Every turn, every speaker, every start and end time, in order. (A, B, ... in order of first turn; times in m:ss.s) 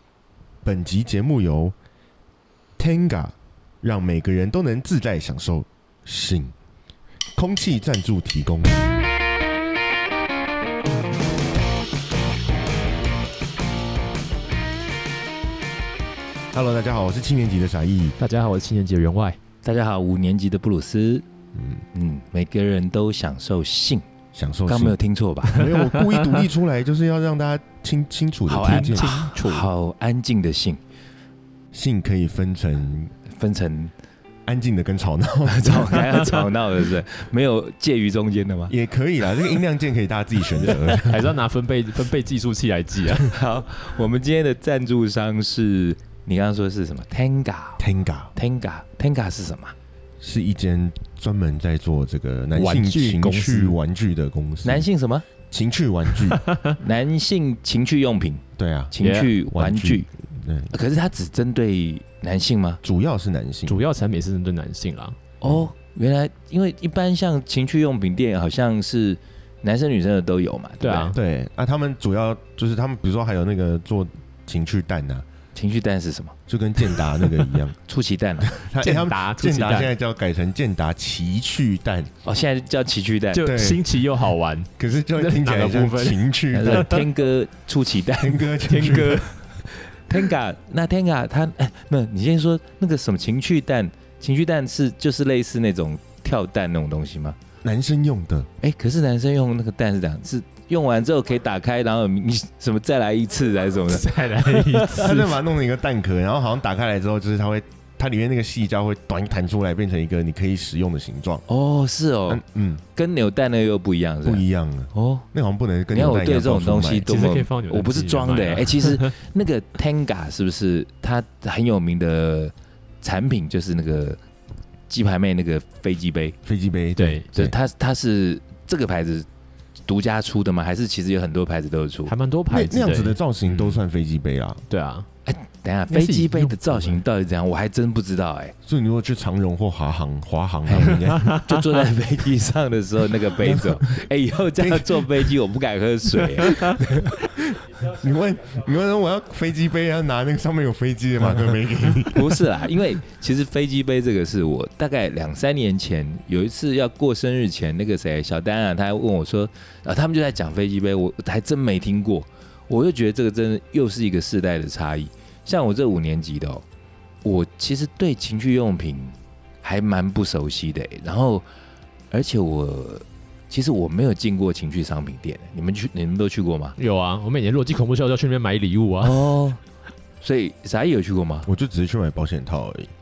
0:00.6-0:01.7 A
0:02.8-0:06.5 A
0:07.4-0:08.8 A
0:16.5-0:18.2 A
0:18.2-0:19.4 B
0:19.6-0:21.2 C
0:21.5-0:21.8 A
0:21.9-0:24.0 C
0:24.3-0:25.0 A
0:24.7-0:25.7 C
0:25.5-0:29.1 A
0:25.6-0:26.4 B
0:28.5-0:30.8 C
0:28.6-0:29.7 B
0:31.7-0:33.1 A
0:33.3-0:33.9 C
0:34.5-0:36.0 A
0:35.5-0:38.7 C
0:36.1-0:36.4 B
0:38.7-0:41.3 A
0:41.0-0:43.3 B
0:43.2-0:47.8 C
0:47.8-0:48.3 A
0:48.4-0:49.7 C
0:50.2-0:54.8 A
0:52.5-0:53.8 B
0:54.6-0:55.2 C
0:55.5-0:56.4 A
0:56.2-0:56.8 B
0:56.8-1:00.1 C
0:58.6-0:58.9 A
0:59.0-0:59.3 B
0:59.5-1:00.7 A
1:00.7-1:02.8 C
1:02.8-1:03.8 A
1:03.7-1:05.2 B
1:05.4-1:11.1 C
1:10.8-1:11.2 B
1:11.1-1:15.2 A
1:15.5-1:16.4 C
1:16.5-1:17.8 A
1:17.8-1:18.6 C
1:18.4-1:22.1 A
1:18.8-1:19.9 B
1:22.2-1:23.5 C
1:23.3-1:27.1 B
1:23.4-1:23.8 A
1:24.8-1:26.9 A
1:26.5-1:37.4 C
1:28.2-1:29.2 A
1:28.6-1:29.3 B
1:37.6-1:38.5 A
1:38.6-1:45.2 C
1:43.9-1:45.3 B
1:45.0-1:51.4 A
1:51.5-1:52.4 C
1:52.3-1:52.8 A
1:52.9-1:54.4 C
1:54.2-1:57.1 A
1:54.9-1:55.3 C
1:55.9-2:04.2 C
1:57.0-1:59.1 B
2:04.9-2:06.4 C
2:06.4-2:07.5 A
2:07.0-2:07.3 B
2:07.3-2:09.3 C
2:09.9-2:12.1 C
2:12.0-2:13.2 B
2:12.5-2:14.6 A
2:13.5-2:13.8 C
2:14.7-2:15.1 B
2:15.2-2:18.5 C
2:15.9-2:17.0 B
2:18.6-2:21.3 A
2:20.7-2:27.3 C
2:21.1-2:21.9 B
2:23.4-2:23.9 A
2:24.6-2:25.2 A
2:27.3-2:32.4 A
2:32.1-2:46.6 C
2:47.2-2:51.4 C
2:52.1-2:56.8 C
2:56.8-2:59.3 B
2:59.0-2:59.6 C
3:00.2-3:01.5 C
3:01.4-3:02.9 A